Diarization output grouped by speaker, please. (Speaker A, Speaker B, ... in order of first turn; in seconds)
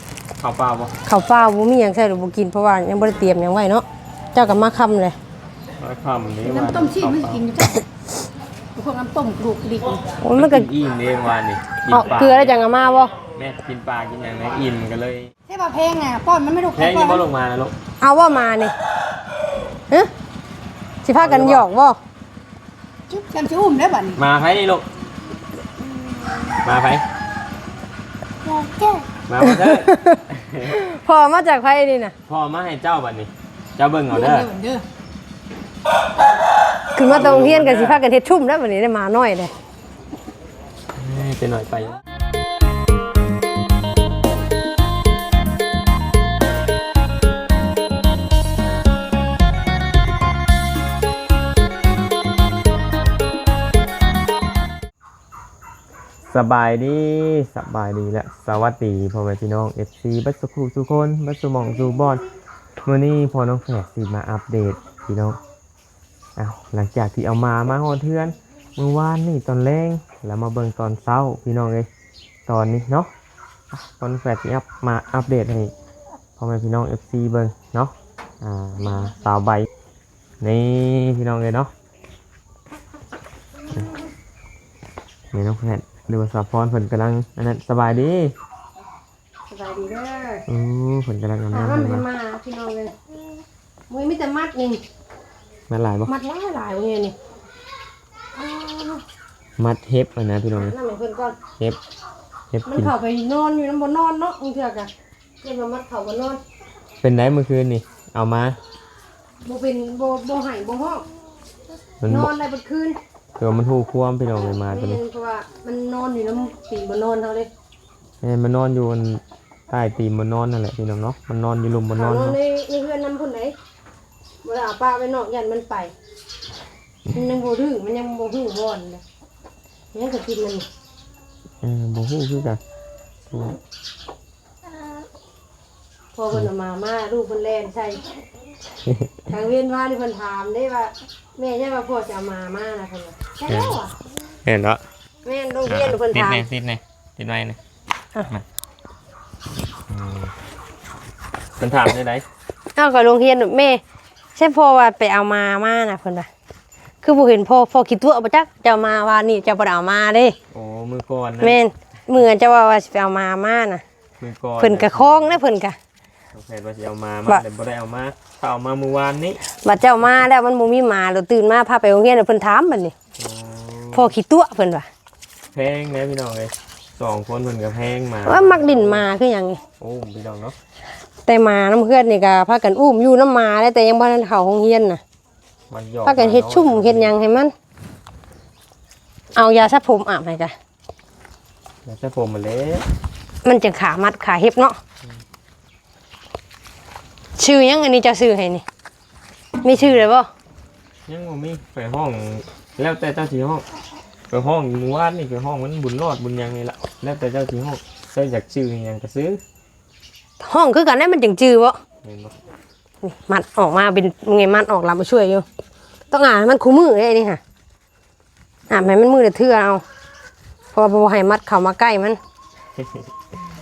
Speaker A: 0.4-0.9, 5.8-7.5, 10.3-12.6, 13.3-15.3, 16.7-17.7, 21.1-21.7, 24.1-24.9, 26.6-27.0, 29.3-30.8, 32.3-34.5, 37.0-38.0, 41.0-42.0, 56.2-62.2, 62.8-65.4, 66.4-71.9, 72.5-73.1, 73.7-75.7, 76.4-79.7, 80.4-81.7, 85.3-88.3, 90.5-92.0, 95.7-96.1, 99.6-100.8, 102.5-102.9, 107.0-108.6, 112.0-112.3, 113.4-115.0, 118.2-122.4, 131.6-132.6, 133.3-133.6, 138.8-139.1, 143.5-143.8, 144.4-144.8, 145.7-147.6, 149.9-150.3, 151.6-152.2, 160.5-161.6, 164.2-165.4, 166.3-169.4, 173.2-174.1, 175.5-179.1, 179.8-180.6, 185.7-187.1, 191.8-192.8, 201.1-203.6, 204.3-209.4, 212.0-212.3, 222.8-223.1
Speaker B: 1.0-5.2, 10.2-10.7, 11.9-13.1, 18.0-18.7, 21.0-22.0, 29.4-32.1, 36.9-39.5, 89.5-90.4, 91.5-92.9, 93.9-94.8, 96.1-97.2, 98.3-99.0, 100.5-101.4, 102.7-104.9, 105.4-106.4, 109.4-111.0, 112.1-113.0, 114.7-117.5, 122.0-123.5, 124.4-125.9, 127.1-129.0, 129.9-130.7, 136.1-138.0, 139.3-143.9, 145.2-146.4, 152.7-153.8, 154.3-156.3, 157.0-160.3, 161.4-163.8, 164.6-165.8, 169.6-172.9, 173.9-174.9, 178.2-179.6, 181.2-185.0, 186.0-187.5, 189.3-190.5, 193.4-194.8, 197.4-198.6, 199.6-200.3, 210.4-211.8, 213.0-215.4, 216.1-217.4, 218.7-219.8, 220.7-222.2
Speaker C: 6.4-7.8, 8.7-10.0, 15.5-17.2, 23.1-24.2, 28.4-29.0, 34.1-34.8